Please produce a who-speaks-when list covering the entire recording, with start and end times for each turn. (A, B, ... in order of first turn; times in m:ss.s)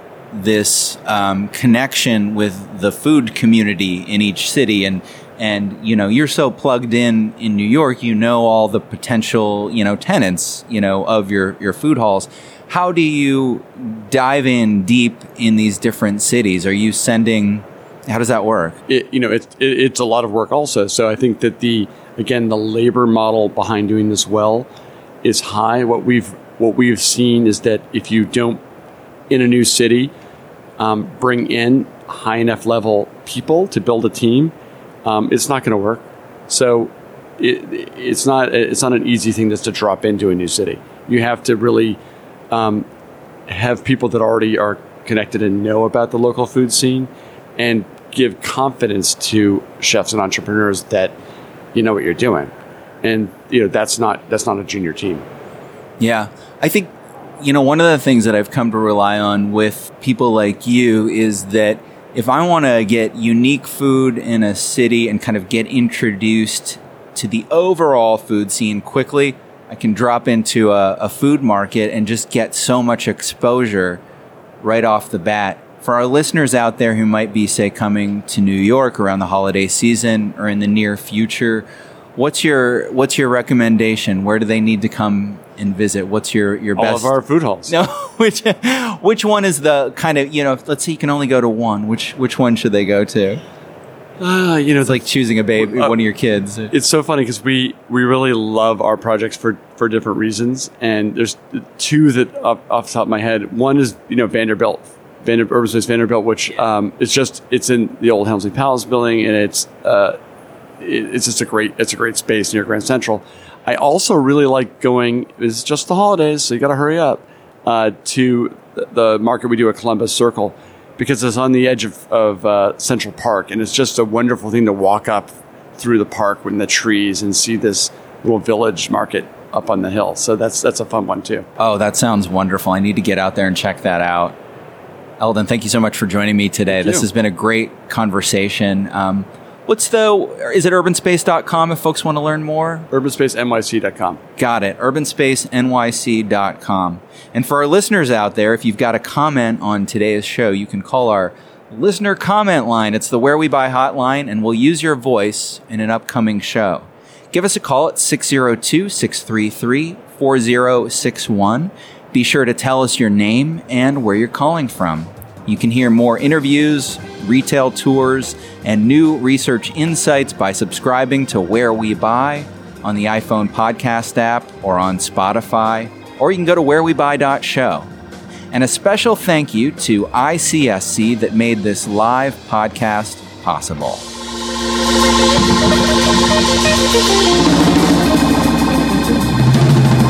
0:00.3-0:18.8 A
0:18.9-0:24.7 B
0:25.2-0:28.6 B
0:29.3-0:30.1 B
0:30.8-0:34.5 B
0:35.0-0:42.0 B
0:42.5-0:42.9 B
0:43.5-0:51.1 B
0:51.7-0:52.5 B
0:53.0-0:55.2 B
0:56.0-1:14.0 A
1:14.6-1:21.6 A
1:22.2-1:27.1 A
1:26.8-1:27.7 B
1:27.7-1:33.4 A
1:34.2-1:35.0 B
1:34.8-1:36.7 A
1:35.6-1:36.0 B
1:36.7-1:50.2 B
1:50.8-2:11.4 B
2:11.6-2:14.4 A
2:15.2-2:22.9 A
2:16.7-2:17.0 B
2:22.9-2:24.2 B
2:24.4-2:57.9 A
2:58.5-3:04.0 A